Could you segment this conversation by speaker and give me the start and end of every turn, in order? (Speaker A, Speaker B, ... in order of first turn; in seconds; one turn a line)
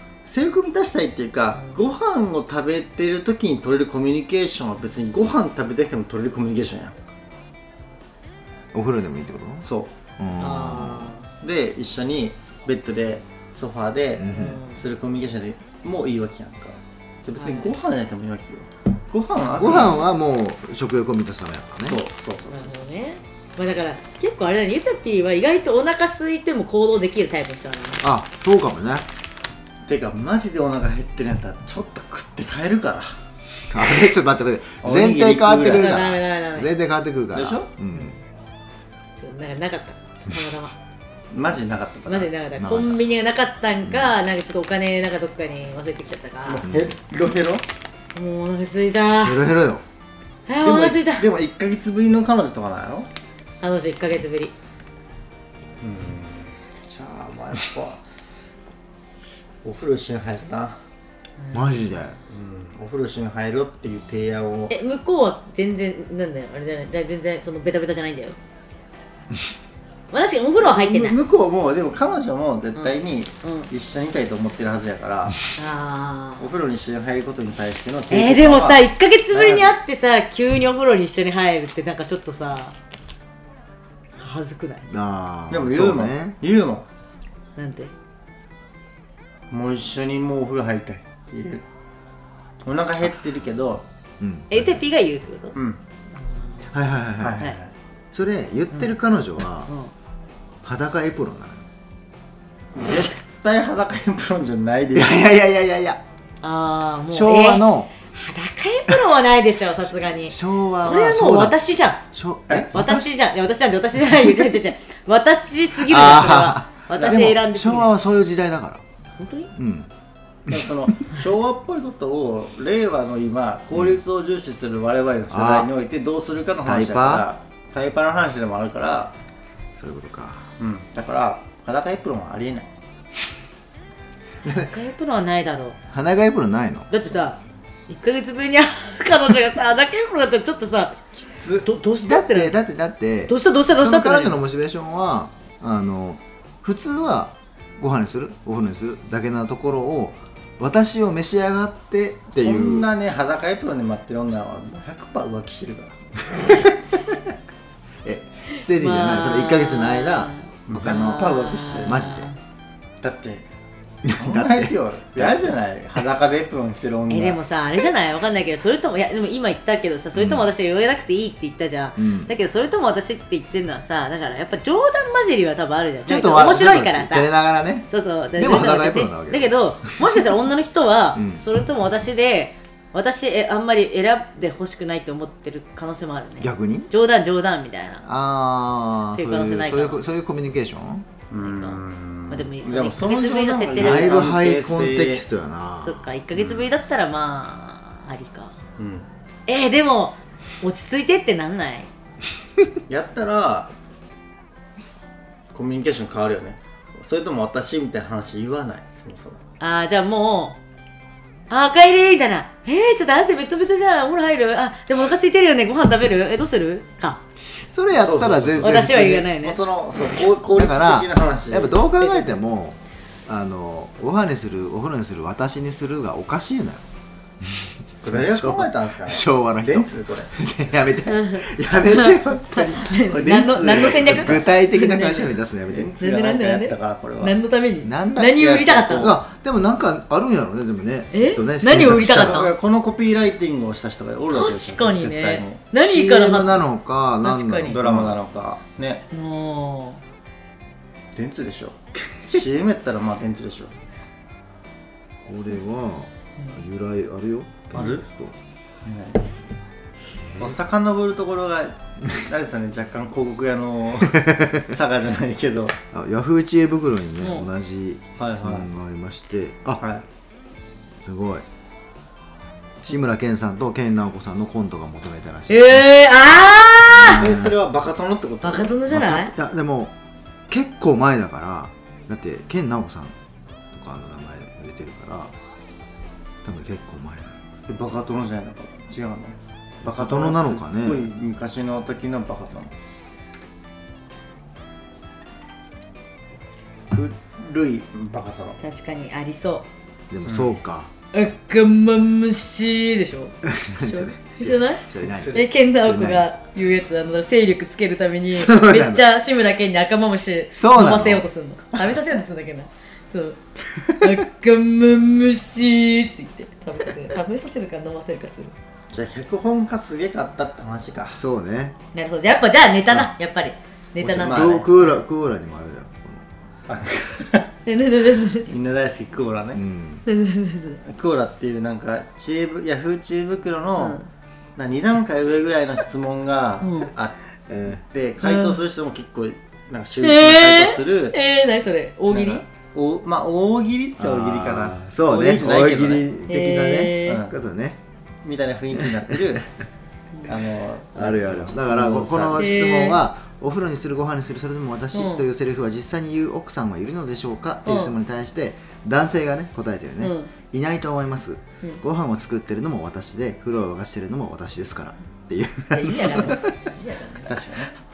Speaker A: 0.3-7.0
Speaker B: 8.7-9.7
Speaker A: 9.6-9.9
Speaker B: 10.2-11.1
Speaker C: 10.4-11.3
Speaker A: 11.4-20.0
Speaker B: 14.2-14.6
Speaker C: 14.3-14.8
Speaker C: 17.4-17.7
Speaker B: 19.4-22.0
Speaker A: 21.9-22.8
Speaker C: 22.5-28.0
Speaker B: 28.0-29.1
Speaker A: 29.9-33.2
Speaker B: 33.7-38.1
Speaker A: 34.8-36.0
Speaker C: 35.7-36.7
Speaker A: 37.3-37.7
Speaker C: 37.9-38.2
Speaker C: 39.2-40.7
Speaker A: 41.3-42.3
Speaker C: 42.1-46.6
Speaker B: 42.6-43.0
Speaker B: 43.9-44.1
Speaker A: 46.5-47.6
Speaker B: 46.6-46.9
Speaker C: 48.1-49.4
Speaker B: 49.2-49.9
Speaker C: 50.5-51.3
Speaker A: 50.6-53.1
Speaker C: 53.6-54.5
Speaker A: 55.8-58.0
Speaker A: 59.6-60.8
Speaker C: 61.4-61.9
Speaker B: 61.5-62.2
Speaker A: 62.3-64.7
Speaker C: 64.7-68.4
Speaker C: 70.1-71.2
Speaker A: 70.6-75.4
Speaker C: 72.8-73.7
Speaker C: 75.6-76.5
Speaker A: 76.4-79.7
Speaker C: 78.1-82.7
Speaker C: 84.2-84.9
Speaker B: 84.9-86.4
Speaker A: 85.5-86.9
Speaker C: 87.6-87.9
Speaker A: 89.5-91.7
Speaker A: 92.6-93.8
Speaker B: 94.2-94.8
Speaker C: 94.5-95.6
Speaker C: 96.2-96.7
Speaker B: 96.7-97.4
Speaker A: 97.2-97.7
Speaker B: 98.1-99.7
Speaker C: 99.7-99.9
Speaker B: 100.6-101.7
Speaker A: 102.8-105.2
Speaker B: 104.9-106.0
Speaker C: 106.4-112.0
Speaker B: 107.1-107.9
Speaker B: 109.8-113.1
Speaker C: 112.7-117.9
Speaker B: 115.8-118.8
Speaker A: 116.9-117.3
Speaker C: 119.2-119.5
Speaker B: 119.6-119.9
Speaker A: 120.5-129.1
Speaker B: 123.7-124.0
Speaker B: 125.3-125.7
Speaker B: 126.7-127.3
Speaker B: 129.8-130.5
Speaker A: 130.6-132.7
Speaker C: 134.5-135.8
Speaker B: 135.9-136.9
Speaker C: 136.9-137.4
Speaker C: 137.9-141.0
Speaker A: 141.3-141.7
Speaker C: 141.6-142.6
Speaker B: 142.0-152.9
Speaker C: 143.3-144.4
Speaker A: 152.3-156.2
Speaker B: 156.3-157.3
Speaker B: 158.0-162.3
Speaker C: 158.5-162.4
Speaker A: 160.7-162.1
Speaker A: 163.0-163.5
Speaker B: 164.1-165.4
Speaker A: 164.2-167.4
Speaker C: 167.1-177.3
Speaker B: 170.2-170.5
Speaker B: 172.0-172.3
Speaker B: 176.1-179.5
Speaker C: 177.9-188.1
Speaker B: 181.2-181.4
Speaker B: 186.4-186.9
Speaker B: 188.1-191.1
Speaker C: 189.1-190.0
Speaker A: 191.3-195.2
Speaker C: 191.4-194.3
Speaker B: 193.8-196.1
Speaker C: 195.8-198.6
Speaker A: 198.8-199.1
Speaker C: 199.5-201.9
Speaker A: 202.9-203.7
Speaker A: 205.5-209.4
Speaker C: 209.6-210.6
Speaker C: 211.5-217.2
Speaker B: 217.5-219.3
Speaker A: 218.0-221.8
Speaker C: 218.6-219.6
Speaker B: 220.5-226.8
Speaker C: 222.0-222.4
Speaker B: 227.4-235.9
Speaker A: 228.0-230.3
Speaker C: 231.1-235.3
Speaker A: 233.1-234.4
Speaker A: 235.7-237.4
Speaker C: 236.0-239.1
Speaker B: 237.8-242.5
Speaker A: 238.4-239.2
Speaker C: 241.1-242.5
Speaker A: 242.1-245.6
Speaker C: 244.3-246.7
Speaker B: 245.8-248.2
Speaker C: 247.2-247.8
Speaker A: 247.7-249.0
Speaker C: 249.1-250.0
Speaker A: 251.2-253.7
Speaker B: 255.2-258.4
Speaker A: 257.8-258.0
Speaker A: 258.9-259.3
Speaker B: 260.2-260.6
Speaker A: 260.4-265.8
Speaker B: 264.2-264.6
Speaker B: 265.9-269.8
Speaker C: 267.2-267.5
Speaker A: 268.2-268.7
Speaker B: 271.0-271.4
Speaker B: 272.9-276.0
Speaker C: 275.5-277.3
Speaker B: 276.9-277.6
Speaker A: 277.1-278.8
Speaker C: 278.4-279.3
Speaker B: 278.9-279.9
Speaker B: 280.5-283.2
Speaker B: 283.7-285.3
Speaker B: 286.4-287.4
Speaker A: 287.7-292.7
Speaker B: 289.8-291.1
Speaker A: 296.9-298.6
Speaker C: 298.6-299.7
Speaker B: 300.1-300.9
Speaker A: 300.2-300.5
Speaker C: 301.1-313.4
Speaker B: 303.4-306.3
Speaker A: 305.0-305.5
Speaker B: 308.3-309.0
Speaker B: 310.6-311.3
Speaker C: 313.9-318.5
Speaker A: 318.9-321.2
Speaker B: 321.2-321.8
Speaker C: 321.9-324.9
Speaker B: 324.0-326.3
Speaker A: 324.2-324.7
Speaker A: 326.7-327.5
Speaker C: 327.7-328.5
Speaker A: 328.5-329.6
Speaker B: 329.6-330.1
Speaker C: 330.1-330.8
Speaker A: 330.8-334.0
Speaker C: 333.8-334.1
Speaker A: 334.6-337.2
Speaker C: 336.6-336.9
Speaker B: 337.5-337.8
Speaker A: 337.7-341.2
Speaker C: 338.2-338.6
Speaker C: 340.0-342.4
Speaker A: 342.1-346.1
Speaker B: 344.0-347.8
Speaker C: 346.3-347.2
Speaker A: 347.1-347.4
Speaker A: 348.2-349.5
Speaker B: 348.8-349.0
Speaker A: 350.2-352.5
Speaker B: 350.9-366.5
Speaker C: 352.4-353.0
Speaker C: 354.9-355.2
Speaker C: 357.7-357.9
Speaker C: 360.0-360.3
Speaker C: 365.7-367.3
Speaker A: 367.3-367.7